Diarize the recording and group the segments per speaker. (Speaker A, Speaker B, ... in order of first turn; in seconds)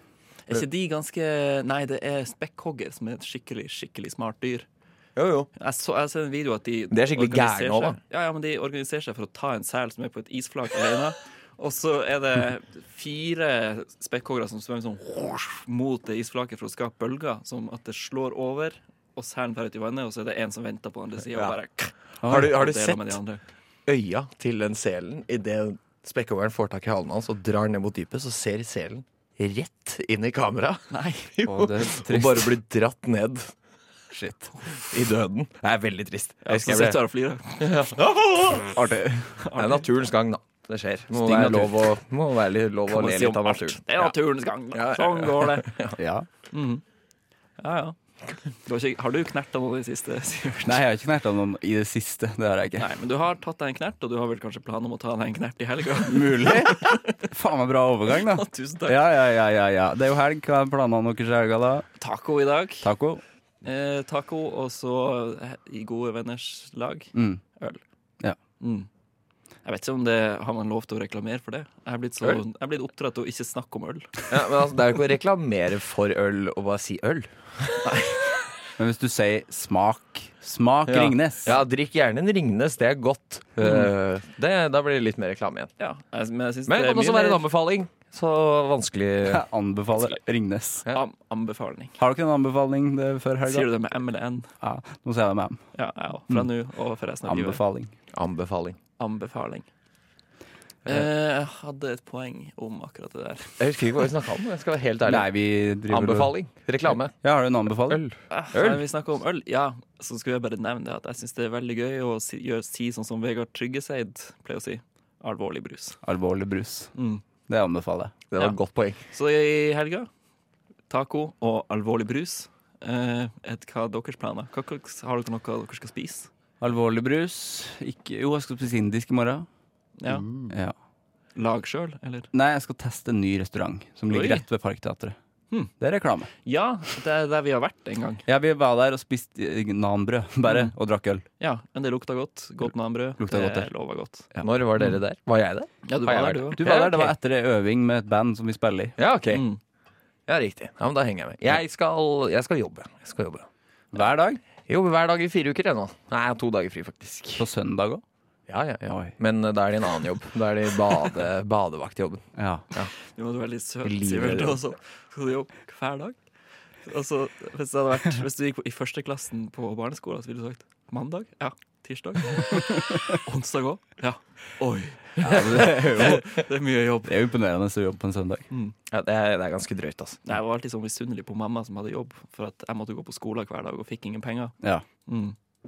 Speaker A: 0.5-4.7, 5.6-23.4, 30.9-31.3, 36.4-37.9, 39.4-39.9, 42.9-45.8, 46.5-46.8, 47.6-48.0, 48.6-50.8, 52.8-57.2, 58.2-59.0, 62.0-62.9, 63.6-67.8, 68.6-68.9, 69.7-74.3, 77.8-78.2, 85.8-87.5, 90.9-92.0, 93.5-94.5, 95.7-97.6, 99.0-99.7, 100.9-103.6, 108.3-116.0, 117.0-117.2, 119.1-120.1, 120.9-126.3, 130.0-130.3, 131.4-132.3, 134.1-134.4, 136.4-138.2, 140.5-140.7, 141.4-144.3, 145.9-146.6, 149.3-149.6, 163.2-166.2, 166.8-177.1, 178.5-178.8, 180.2-184.6, 185.1-185.3
Speaker B: 5.2-5.5, 6.9-8.0, 22.2-23.1, 23.9-33.5, 34.9-37.0, 37.6-38.8, 39.5-44.1, 44.7-46.0, 74.3-78.0, 80.9-85.7, 86.7-89.5, 98.1-98.8, 103.6-105.3, 105.9-107.2, 107.8-108.8, 118.3-119.0, 144.4-147.1, 149.0-149.5, 150.3-153.5, 154.7-157.5, 158.5-162.9, 163.8-164.6, 175.2-175.5, 178.9-180.2
Speaker C: 22.2-22.8, 31.4-32.5, 34.1-34.5, 38.7-39.3, 41.2-41.8, 46.0-46.3, 50.6-52.9, 56.1-61.9, 62.8-63.2, 67.2-67.4, 78.8-81.6, 89.3-90.8, 92.0-93.7, 94.6-95.6, 97.2-97.9, 105.0-106.3, 107.2-108.0, 116.0-116.9, 117.5-118.2, 126.6-129.5, 130.5-130.7, 132.3-135.2, 135.8-136.3, 138.3-141.2, 143.2-143.7, 146.6-149.0, 153.9-154.4, 157.4-158.0, 158.9-159.1, 162.4-162.6, 175.2-176.4, 177.1-178.5